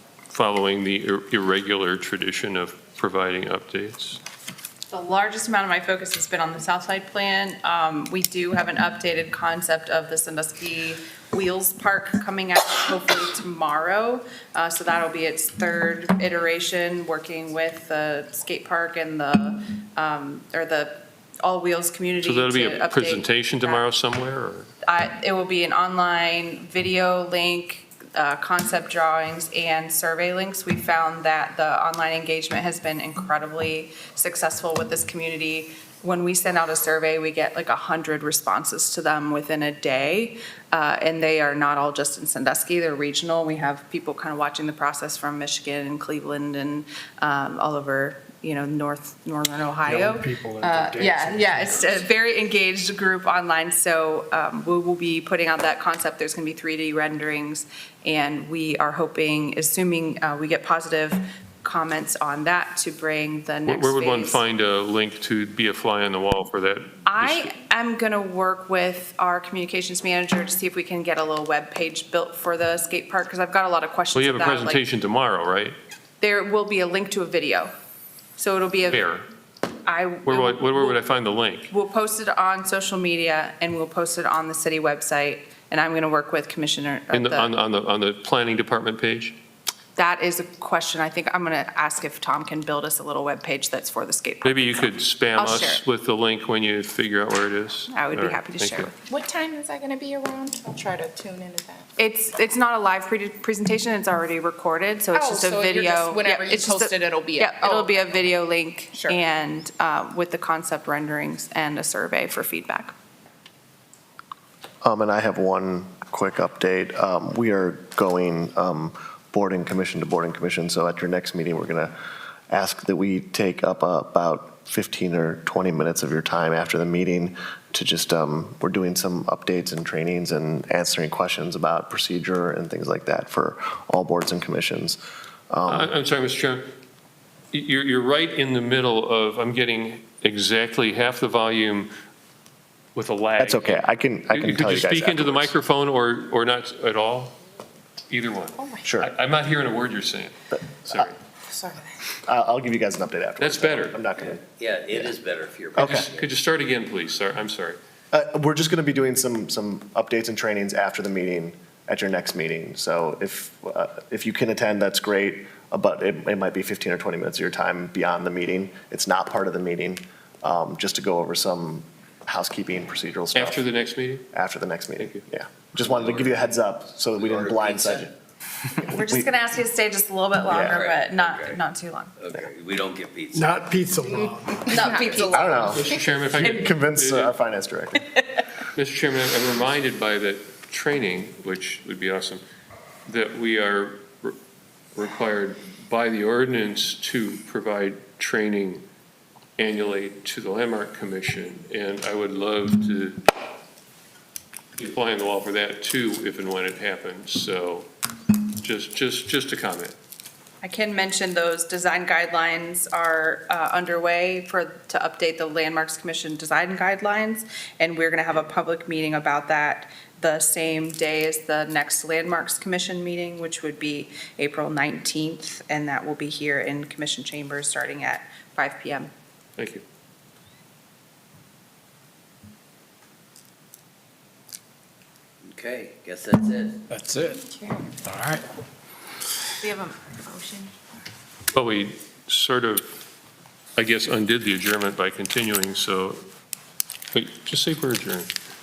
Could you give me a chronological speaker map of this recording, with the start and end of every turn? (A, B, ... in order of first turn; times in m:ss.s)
0:00.3-0:04.2 A
0:04.9-0:23.8 B
0:22.2-0:24.7 A
0:24.9-1:04.4 B
0:49.8-0:52.0 C
1:03.7-1:07.5 A
1:07.1-1:14.8 B
1:14.1-1:15.8 A
1:16.2-1:17.7 B
1:18.4-1:19.1 B
1:18.9-1:19.2 A
1:19.8-1:21.0 B
1:20.2-1:21.7 A
1:21.7-1:27.5 B
1:27.1-1:29.4 A
1:30.0-1:35.8 B
1:34.4-1:38.9 A
1:37.9-1:38.9 B
1:39.1-1:41.9 D
1:42.0-1:52.9 B
1:45.1-1:47.9 D
1:54.8-2:01.9 E
2:02.5-2:15.0 E
2:15.5-2:15.9 E
2:15.7-2:16.7 A
2:17.5-2:21.9 A
2:23.0-2:27.4 A
2:23.4-2:25.5 E
2:28.1-2:30.3 A
2:28.6-2:28.9 D
2:28.8-2:29.1 E
2:30.5-2:31.1 E
2:30.8-2:31.2 A
2:31.5-2:31.9 D
2:32.2-2:35.1 E
2:33.4-2:34.0 A
2:34.6-2:36.4 F
2:35.8-2:36.1 E
2:35.8-2:37.8 A
2:38.1-2:53.7 E
2:53.3-2:54.3 A
2:54.3-2:58.1 E
2:55.0-2:55.2 A
2:55.8-2:56.3 A
2:57.2-2:58.1 F
2:58.8-3:02.2 B
2:58.8-2:59.3 E
3:00.5-3:00.8 E
3:00.7-3:01.6 F
3:02.2-3:03.8 F
3:03.3-3:05.2 C
3:04.0-3:06.0 D
3:04.6-3:05.6 B
3:05.2-3:08.2 E
3:05.7-3:07.4 A
3:08.8-3:12.4 A
3:13.1-3:14.4 A
3:15.0-3:18.8 A
3:19.6-3:23.2 A
3:24.8-3:27.9 A
3:28.6-3:30.0 A
3:30.6-3:49.1 B
3:49.6-3:49.8 A
3:55.4-3:56.9 F
3:56.9-3:57.4 C
3:57.5-3:57.9 D
3:58.1-3:58.4 C
3:59.6-4:00.7 D
4:01.5-4:02.9 A
4:03.8-4:06.2 A
4:07.1-4:08.3 A